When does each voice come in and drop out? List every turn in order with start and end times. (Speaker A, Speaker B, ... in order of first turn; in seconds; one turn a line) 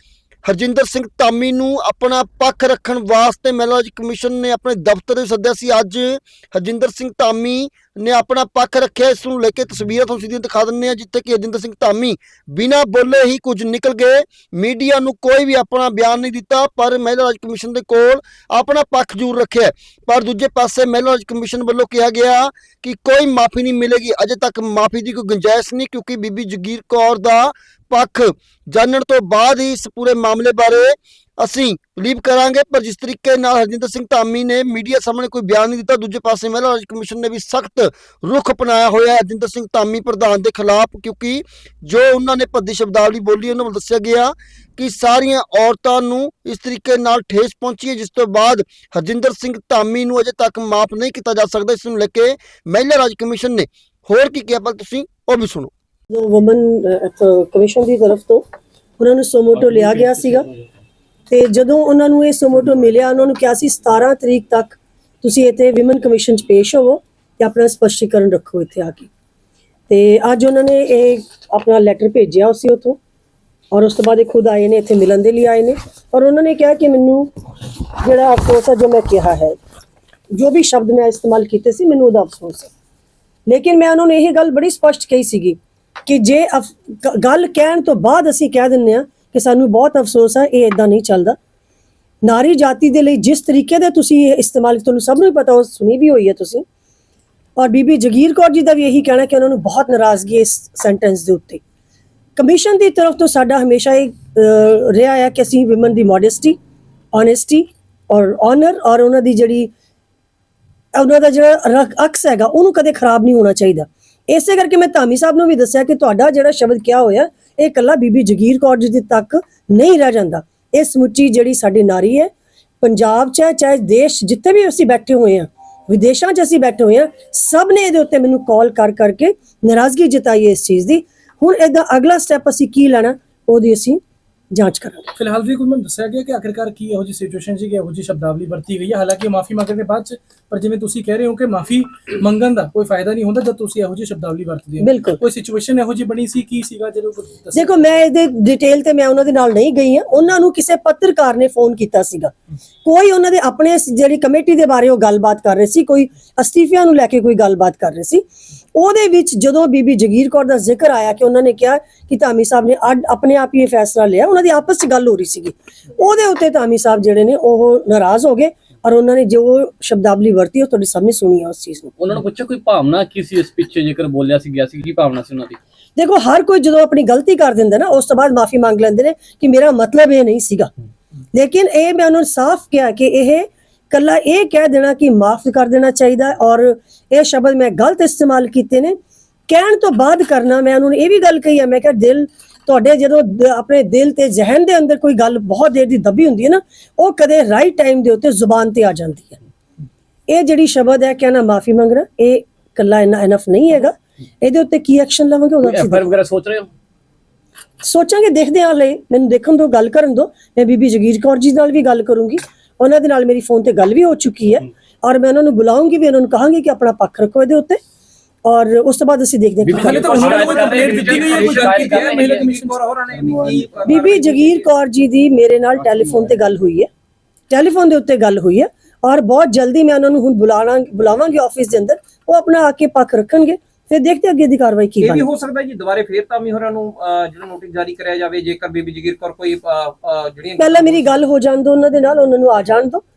Speaker A: 0.5-55.7
Speaker B: 56.1-58.4
Speaker B: 59.0-60.5
Speaker C: 59.8-60.0
Speaker B: 61.3-69.1
Speaker B: 69.9-73.0
Speaker B: 73.7-77.3
Speaker B: 78.0-79.5
Speaker B: 80.3-82.7
Speaker B: 83.5-91.4
Speaker B: 92.2-96.6
Speaker B: 97.5-101.6
Speaker B: 102.3-106.6
Speaker B: 107.1-109.7
Speaker B: 110.9-122.3
Speaker B: 122.8-134.0
Speaker B: 134.5-135.1
Speaker D: 135.1-148.0
Speaker B: 144.8-145.2
Speaker B: 147.5-152.3
Speaker B: 152.8-171.9
Speaker C: 172.0-175.6
Speaker B: 175.9-180.7
Speaker B: 181.3-188.9
Speaker B: 189.5-199.4
Speaker B: 200.3-206.1
Speaker C: 205.6-206.7
Speaker B: 207.8-217.8
Speaker B: 218.4-220.5
Speaker C: 219.6-222.4
Speaker D: 219.7-223.7
Speaker E: 219.9-224.7
Speaker B: 223.8-226.9
Speaker B: 227.5-235.2
Speaker E: 235.0-241.2
Speaker B: 240.6-243.0